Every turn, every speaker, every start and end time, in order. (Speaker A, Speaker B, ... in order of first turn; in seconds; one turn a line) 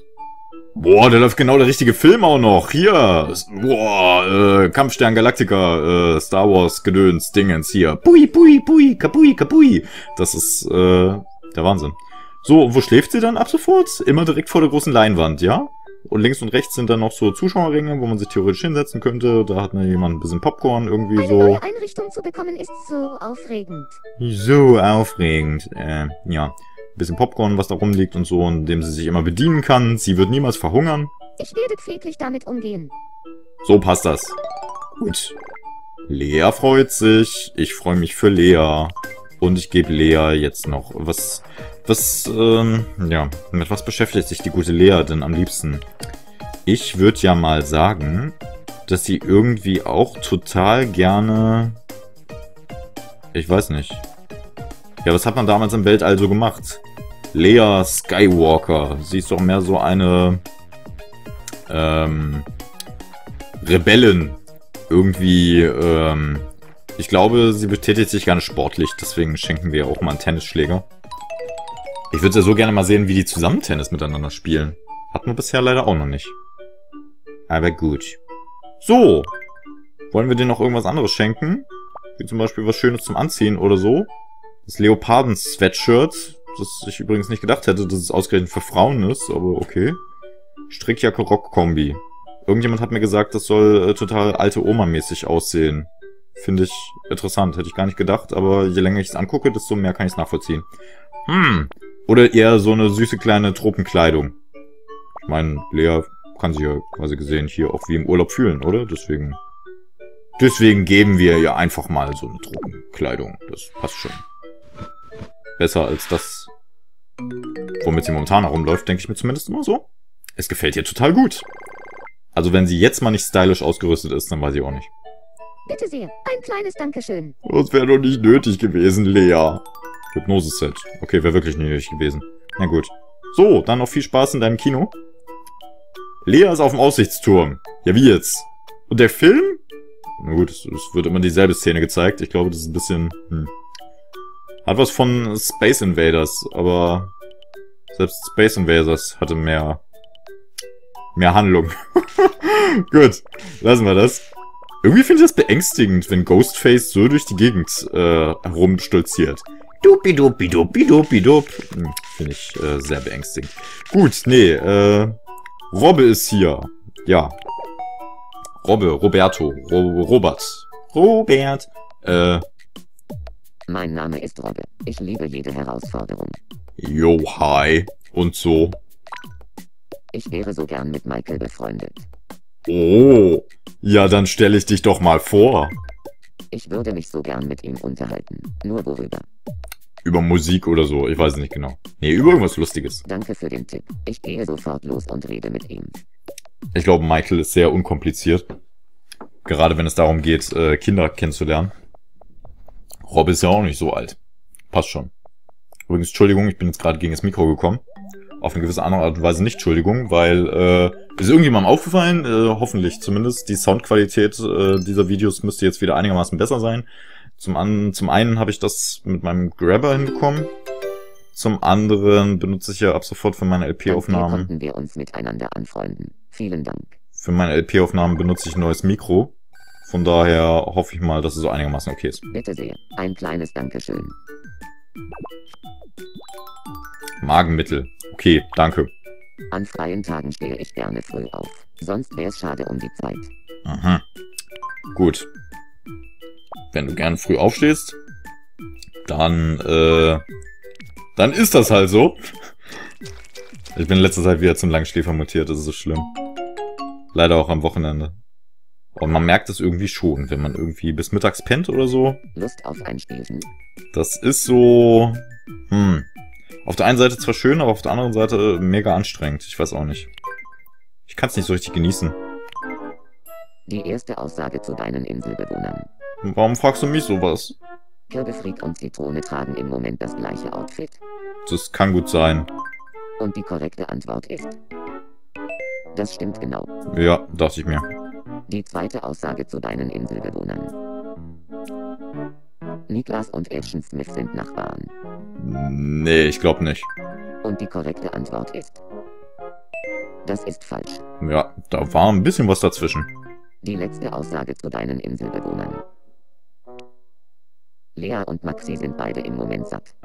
Speaker A: 0.8-21.6
Speaker B: 21.1-24.0
Speaker A: 24.2-31.1
Speaker B: 31.4-32.9
Speaker A: 33.6-34.4
Speaker A: 35.0-35.4
Speaker A: 36.1-45.9
Speaker A: 46.7-48.4
Speaker A: 48.9-51.8
Speaker A: 53.3-54.0
Speaker A: 55.0-60.4
Speaker A: 61.7-62.5
Speaker A: 63.6-70.9
Speaker A: 72.1-76.3
Speaker A: 77.5-78.2
Speaker A: 78.8-79.3
Speaker A: 80.1-84.1
Speaker A: 84.7-90.0
Speaker A: 90.7-100.7
Speaker A: 101.3-104.4
Speaker A: 105.2-109.4
Speaker A: 110.4-114.2
Speaker A: 115.6-116.5
Speaker A: 117.8-121.5
Speaker A: 122.3-124.9
Speaker B: 125.7-127.3
Speaker A: 127.4-134.9
Speaker A: 136.2-139.6
Speaker A: 140.2-143.5
Speaker A: 144.7-147.1
Speaker A: 147.9-149.8
Speaker A: 151.2-154.3
Speaker A: 154.8-165.2
Speaker A: 165.7-167.4
Speaker A: 168.6-172.4
Speaker C: 173.7-176.4
Speaker A: 176.8-178.8
Speaker C: 180.1-182.1
Speaker A: 182.7-185.8
Speaker C: 186.5-189.2
Speaker A: 190.0-193.1
Speaker C: 193.1-196.0
Speaker A: 196.7-198.4
Speaker A: 199.4-201.7
Speaker A: 203.1-204.2
Speaker A: 204.7-205.1
Speaker A: 205.9-207.8
Speaker A: 208.4-220.5
Speaker A: 221.3-224.5
Speaker C: 223.9-227.0
Speaker A: 227.2-232.2
Speaker C: 232.3-234.2
Speaker A: 237.2-238.9
Speaker C: 239.5-243.3
Speaker A: 243.7-244.0
Speaker A: 244.9-245.3
Speaker A: 246.7-248.0
Speaker A: 249.1-250.2
Speaker A: 251.2-252.2
Speaker A: 253.8-256.1
Speaker A: 257.1-258.1
Speaker A: 258.9-262.2
Speaker C: 262.4-263.5
Speaker A: 263.9-266.1
Speaker A: 266.6-270.1
Speaker A: 271.1-272.2
Speaker C: 273.7-275.9
Speaker A: 276.2-277.6
Speaker C: 278.1-281.0
Speaker A: 281.5-282.5
Speaker C: 283.2-284.6
Speaker C: 285.9-286.7
Speaker A: 286.9-287.9
Speaker C: 288.5-290.8
Speaker C: 292.9-294.9
Speaker A: 295.4-296.9
Speaker C: 297.4-298.8
Speaker C: 300.2-301.0
Speaker A: 301.2-303.1
Speaker C: 303.6-305.8
Speaker C: 307.9-309.9